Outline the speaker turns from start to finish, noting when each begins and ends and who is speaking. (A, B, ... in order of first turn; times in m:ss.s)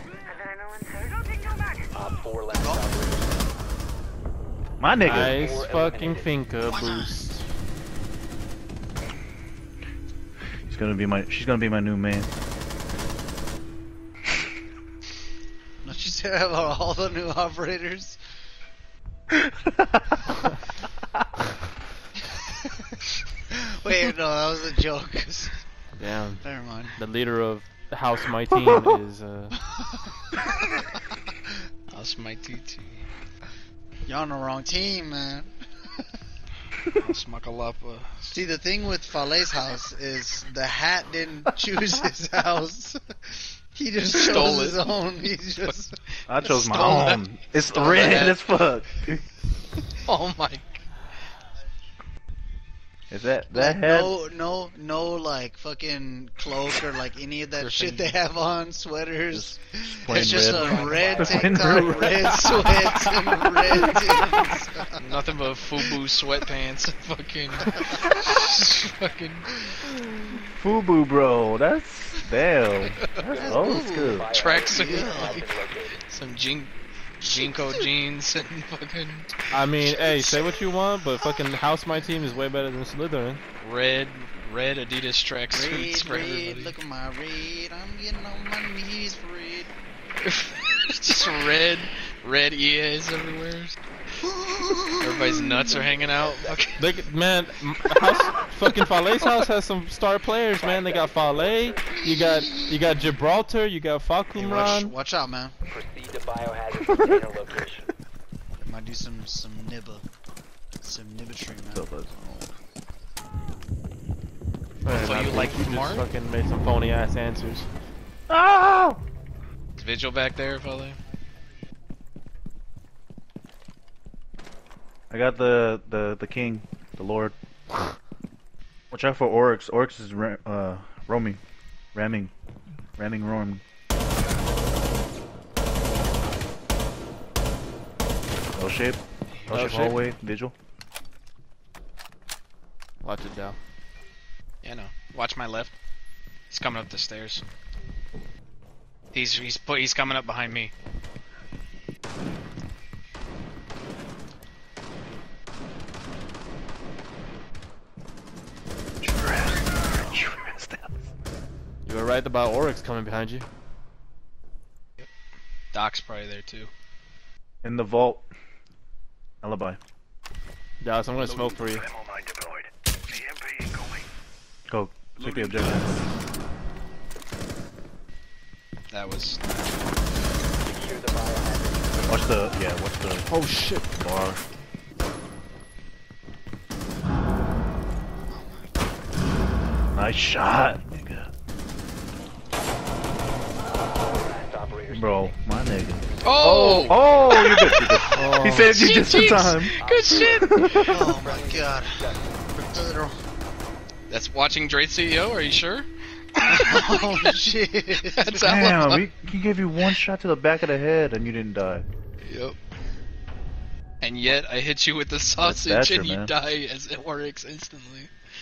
0:01.9-0:03.5 A
0:02.5-0:02.9 B
0:04.8-0:05.4 C
0:05.0-0:07.4 D
0:05.4-0:06.5 A
0:06.7-0:07.2 B
0:10.7-0:12.3 C
0:15.8-0:18.2 B
0:19.4-0:20.0 C
0:23.5-0:25.5 B
0:26.0-0:26.4 D
0:26.4-0:27.0 B
0:27.0-0:29.6 D
0:30.0-0:31.0 B
0:31.9-0:33.1 E
0:34.1-0:35.5 B
0:36.9-0:38.4 E
0:38.3-0:45.9 B
0:44.2-0:45.0 E
0:46.3-0:49.2 C
0:46.4-0:48.4 E
0:50.0-0:50.8 E
0:53.1-0:54.1 C
0:53.5-1:05.2 B
0:57.6-0:58.1 E
0:59.3-1:02.5 C
1:00.4-1:01.8 A
1:01.4-1:04.0 D
1:02.2-1:03.2 E
1:05.0-1:09.7 E
1:07.8-1:08.1 D
1:10.6-1:14.3 C
1:12.8-1:13.2 E
1:13.2-1:16.1 A
1:13.4-1:15.4 B
1:14.3-1:20.1 E
1:17.2-1:17.9 B
1:19.5-1:23.4 D
1:23.6-1:26.8 E
1:25.5-1:29.7 B
1:30.2-1:33.8 E
1:34.2-1:36.6 B
1:35.0-1:36.8 E
1:36.8-1:44.9 D
1:40.6-1:42.0 A
1:41.9-1:43.0 B
1:44.3-1:45.6 B
1:45.7-1:47.9 A
1:48.6-1:50.0 B
1:50.8-1:51.8 B
1:51.7-1:52.5 C
1:54.8-1:57.7 D
1:54.9-1:56.0 E
1:58.3-1:59.0 C
1:59.8-2:01.0 E
2:05.1-2:07.4 C
2:08.9-2:11.4 C
2:11.9-2:12.3 C
2:13.0-2:13.6 C
2:18.6-2:20.5 C
2:19.5-2:20.0 D
2:23.0-2:23.6 D
2:24.6-2:25.7 E
2:26.5-2:27.4 E
2:29.1-2:30.7 E
2:39.0-2:41.0 C
2:41.9-2:43.5 D
2:45.7-2:46.7 E
2:47.6-2:48.3 C
2:49.4-2:49.8 C
2:50.8-2:51.8 D
2:54.7-2:56.0 C
2:58.9-2:59.9 E
3:00.6-3:02.6 A
3:02.1-3:03.3 C
3:03.3-3:04.0 D
3:03.9-3:04.4 C
3:08.3-3:08.6 B
3:09.9-3:11.3 C
3:13.7-3:17.5 A
3:14.9-3:21.1 C
3:16.2-3:21.0 E
3:18.1-3:18.8 D
3:19.8-3:22.6 A
3:20.2-3:23.2 B
3:24.1-3:27.4 E
3:26.5-3:28.7 B
3:28.0-3:29.1 E
3:28.4-3:31.9 C
3:32.2-3:32.6 E
3:34.0-3:38.1 E
3:35.4-3:36.3 C